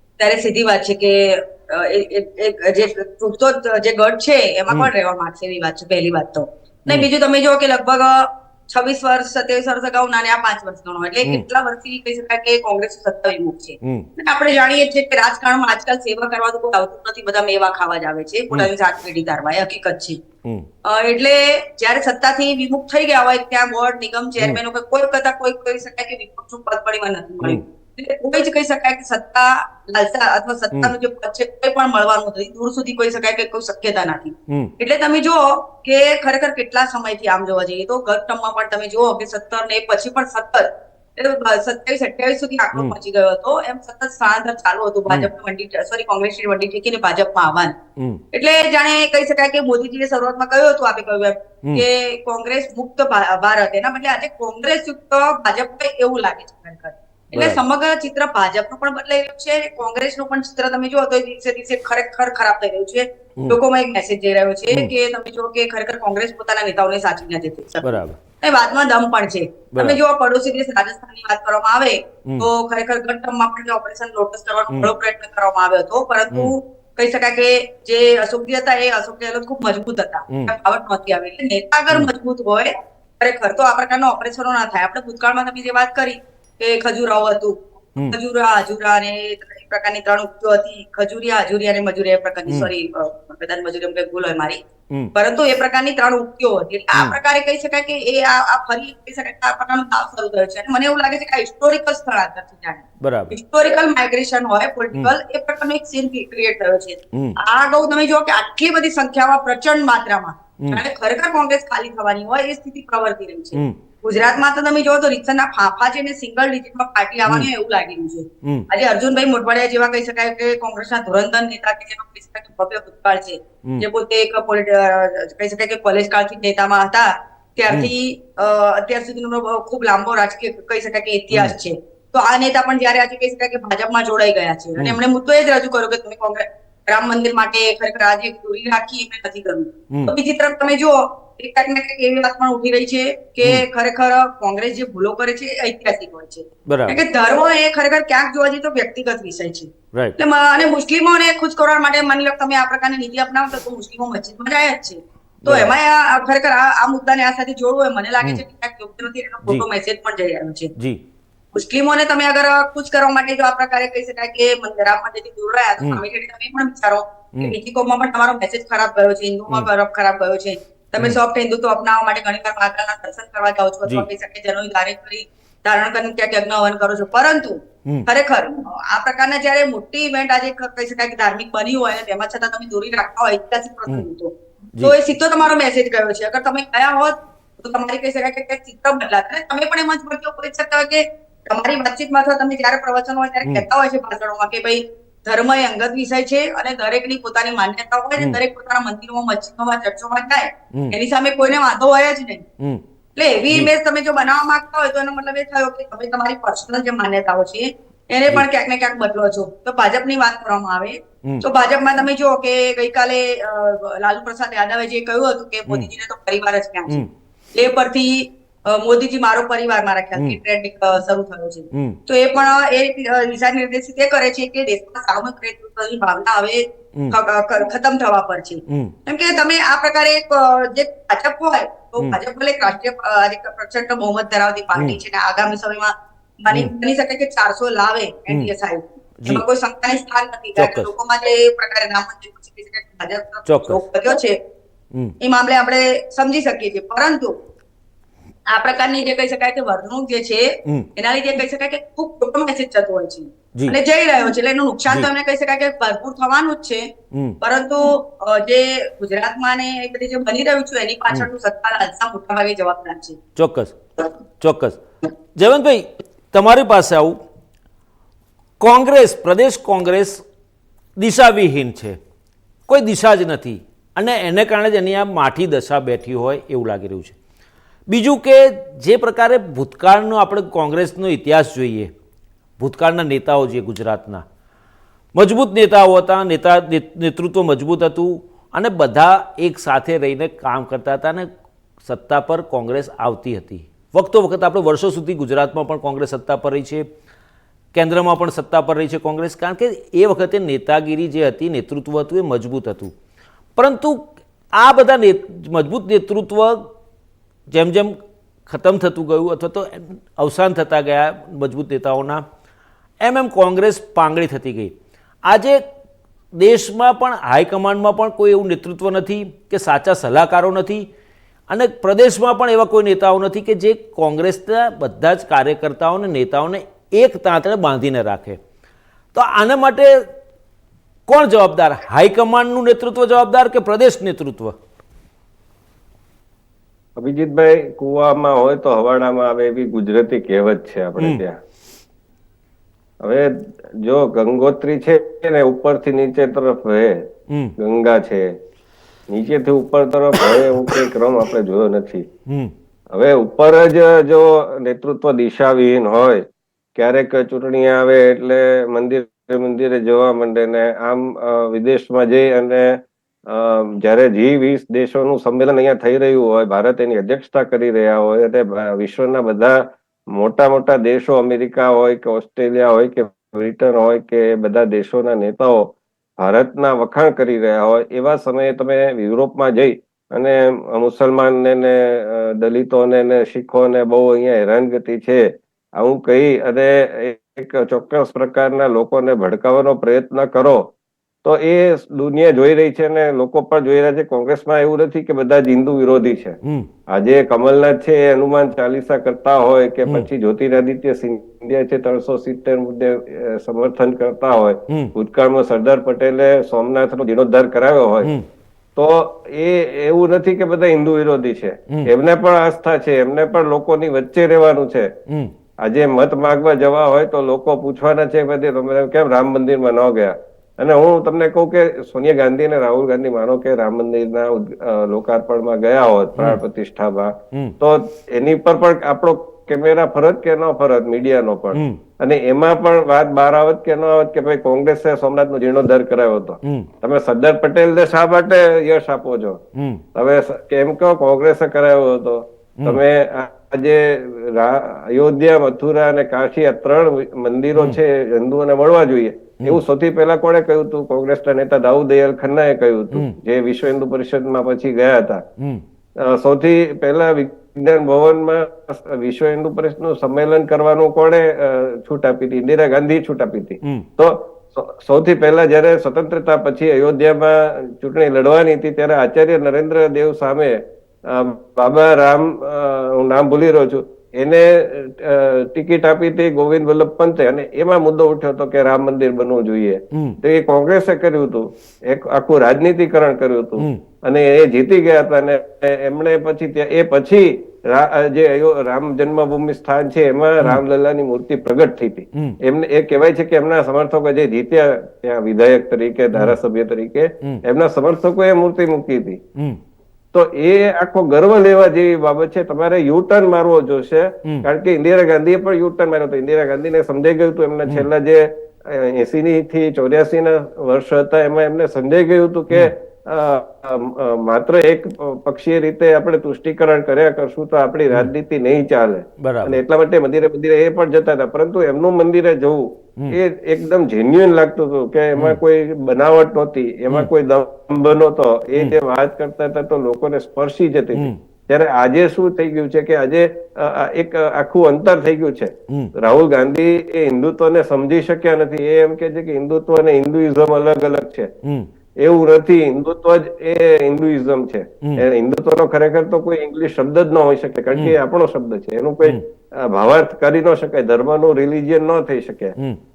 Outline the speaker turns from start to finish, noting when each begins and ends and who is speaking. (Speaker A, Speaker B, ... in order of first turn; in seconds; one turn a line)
Speaker A: 0.2-20.2
Speaker B: 13.8-14.1
Speaker A: 20.8-47.8
Speaker B: 34.5-34.7
Speaker B: 48.0-48.2
Speaker A: 48.3-94.6
Speaker B: 57.4-57.6
Speaker B: 67.8-68.2
Speaker B: 69.7-70.0
Speaker A: 95.2-160.7
Speaker B: 103.0-103.3
Speaker B: 118.4-118.7
Speaker B: 146.7-147.0
Speaker B: 155.4-155.7
Speaker A: 161.5-202.4
Speaker A: 203.2-244.4
Speaker B: 221.7-222.0
Speaker B: 228.7-228.9
Speaker B: 240.6-240.9
Speaker B: 243.5-243.8
Speaker A: 245.2-247.3
Speaker A: 248.5-263.2
Speaker B: 257.1-257.4
Speaker B: 263.4-263.8
Speaker B: 264.4-264.8
Speaker B: 265.4-267.2
Speaker B: 268.6-270.2
Speaker B: 271.0-272.0
Speaker B: 272.7-277.2
Speaker B: 277.9-281.9
Speaker B: 282.6-284.2
Speaker B: 285.1-291.3
Speaker B: 291.8-296.9
Speaker B: 297.7-302.9
Speaker B: 303.6-306.7
Speaker B: 307.5-308.0
Speaker B: 308.5-312.2
Speaker B: 313.0-314.7
Speaker B: 315.2-315.6
Speaker B: 316.3-320.9
Speaker B: 321.5-328.4
Speaker B: 329.1-330.1
Speaker B: 331.1-334.6
Speaker C: 337.0-341.4
Speaker C: 343.0-347.1
Speaker B: 347.3-347.6
Speaker C: 347.6-348.4
Speaker C: 349.1-352.1
Speaker B: 352.3-352.5
Speaker C: 352.9-390.7
Speaker C: 391.2-408.1
Speaker B: 396.4-396.7
Speaker C: 408.8-414.9
Speaker B: 415.1-415.3
Speaker C: 415.6-439.4
Speaker B: 431.5-431.8
Speaker B: 436.4-436.7
Speaker B: 439.6-439.8
Speaker C: 439.9-455.2
Speaker B: 455.4-455.6
Speaker C: 456.0-499.2
Speaker B: 479.9-480.2
Speaker B: 483.6-483.8
Speaker C: 500.1-541.3
Speaker B: 519.2-519.6
Speaker B: 541.4-541.7
Speaker C: 542.0-552.5